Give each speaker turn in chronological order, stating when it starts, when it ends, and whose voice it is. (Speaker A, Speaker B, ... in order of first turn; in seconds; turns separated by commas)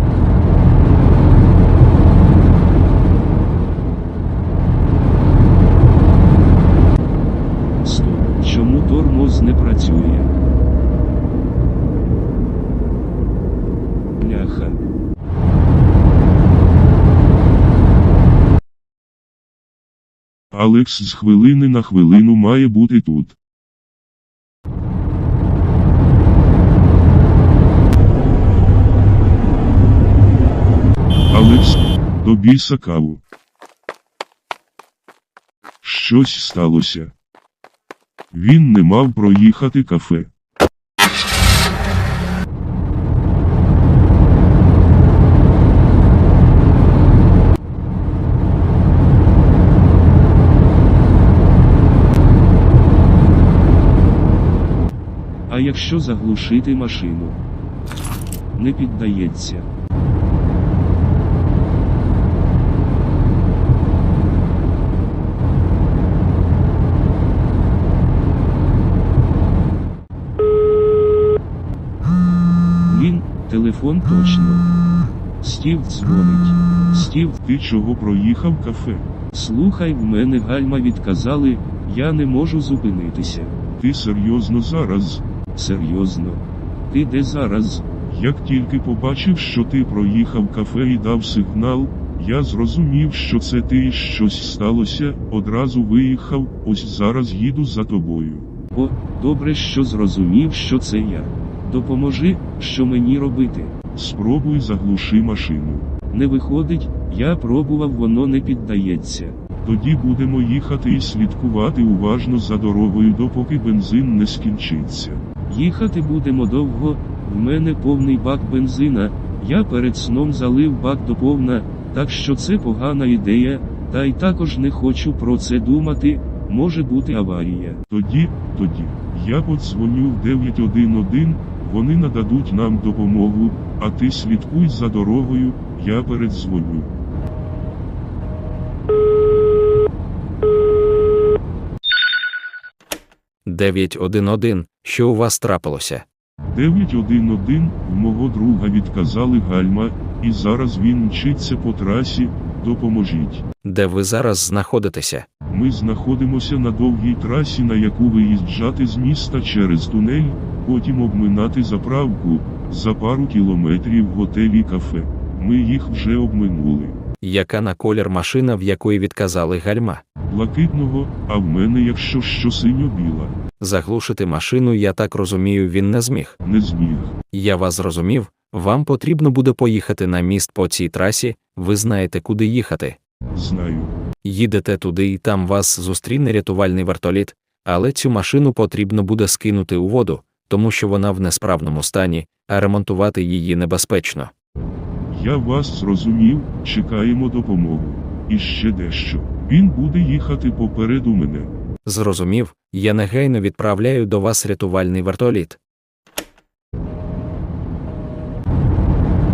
Speaker A: 7.8-10.3, Speaker A: 14.2-14.8, Speaker B: 20.5-23.4, Speaker B: 31.3-33.2, Speaker B: 35.8-37.1, Speaker B: 38.3-40.3, Speaker A: 55.5-57.4, Speaker A: 58.6-59.7, Speaker A: 72.8-74.7, Speaker A: 75.4-77.4, Speaker B: 77.4-79.0, Speaker A: 79.3-83.5, Speaker B: 83.8-85.2, Speaker A: 85.6-87.9, Speaker B: 88.1-98.5, Speaker A: 98.7-103.7, Speaker B: 104.0-105.9, Speaker A: 106.1-109.4, Speaker B: 109.6-115.2, Speaker A: 115.5-127.8, Speaker B: 127.9-136.9, Speaker C: 143.4-146.0, Speaker B: 146.5-153.4, Speaker C: 153.6-155.3, Speaker B: 155.5-167.0, Speaker C: 167.2-170.0, Speaker B: 170.3-173.3, Speaker C: 173.6-176.4, Speaker B: 176.4-177.1, Speaker C: 177.3-183.0, Speaker B: 183.3-184.0, Speaker C: 184.2-194.3, Speaker B: 195.1-201.5, Speaker C: 201.9-205.6